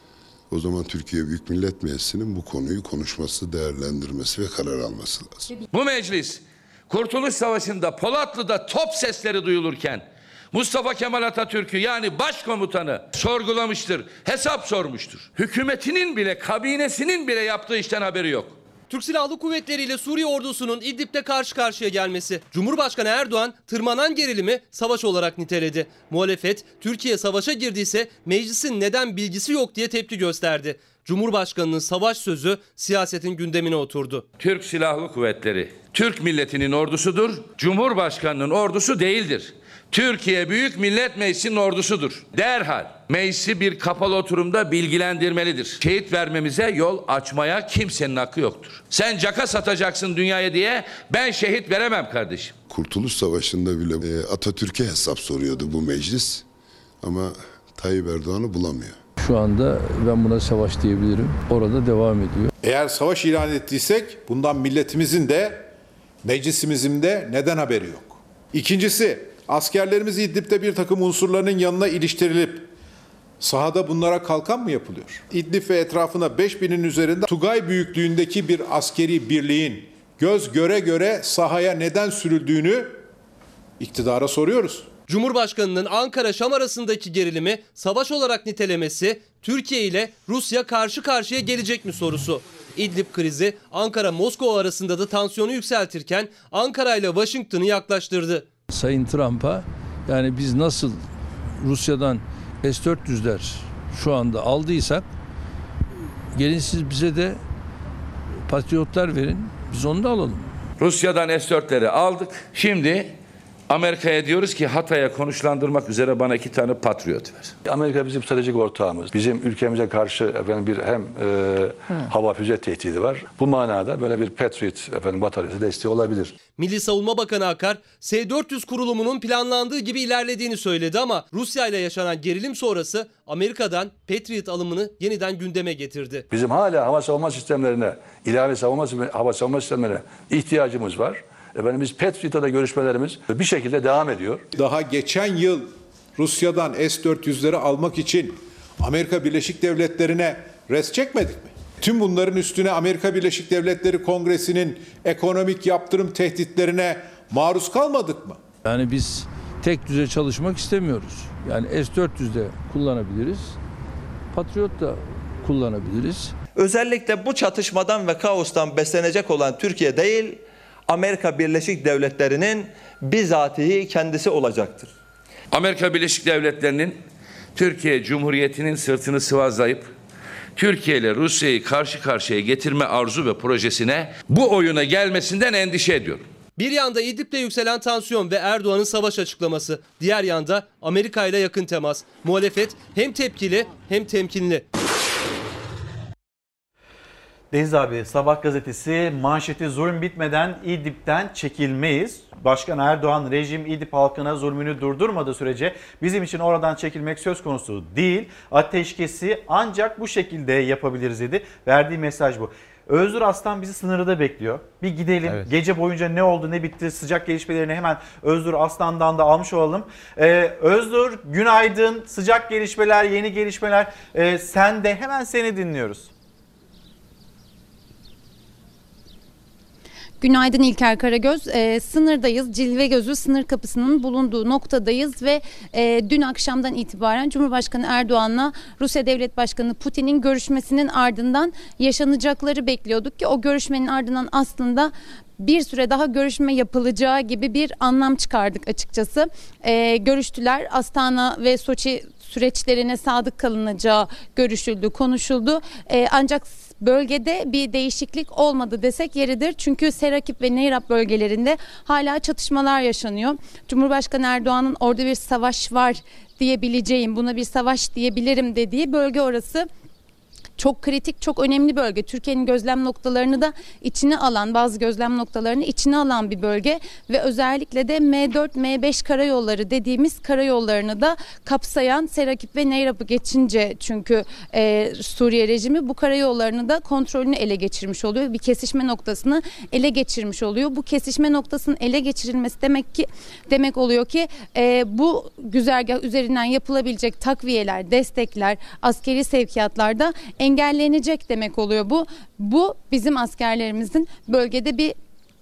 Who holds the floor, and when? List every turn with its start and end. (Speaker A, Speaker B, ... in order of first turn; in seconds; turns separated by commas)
Speaker A: 0.5-5.5, Speaker B: 5.7-18.6, Speaker C: 18.9-34.2, Speaker B: 34.4-52.5, Speaker A: 52.7-56.4, Speaker A: 57.0-59.0, Speaker D: 59.2-62.5, Speaker E: 62.6-65.7, Speaker E: 66.2-72.7, Speaker E: 73.4-83.0, Speaker E: 83.8-84.9, Speaker C: 85.1-98.5, Speaker D: 98.7-101.0, Speaker D: 101.6-105.0, Speaker D: 106.3-107.4, Speaker D: 108.5-110.5, Speaker B: 110.8-113.1, Speaker B: 113.7-117.4, Speaker F: 117.6-126.3, Speaker C: 126.5-136.2, Speaker F: 136.3-144.5, Speaker E: 144.5-158.4, Speaker D: 158.6-163.6, Speaker D: 164.3-166.3, Speaker G: 166.5-174.9, Speaker B: 175.5-177.0, Speaker B: 177.5-179.9, Speaker B: 180.6-186.2, Speaker C: 186.6-194.7, Speaker H: 197.5-226.1, Speaker I: 230.2-269.7, Speaker I: 270.6-304.9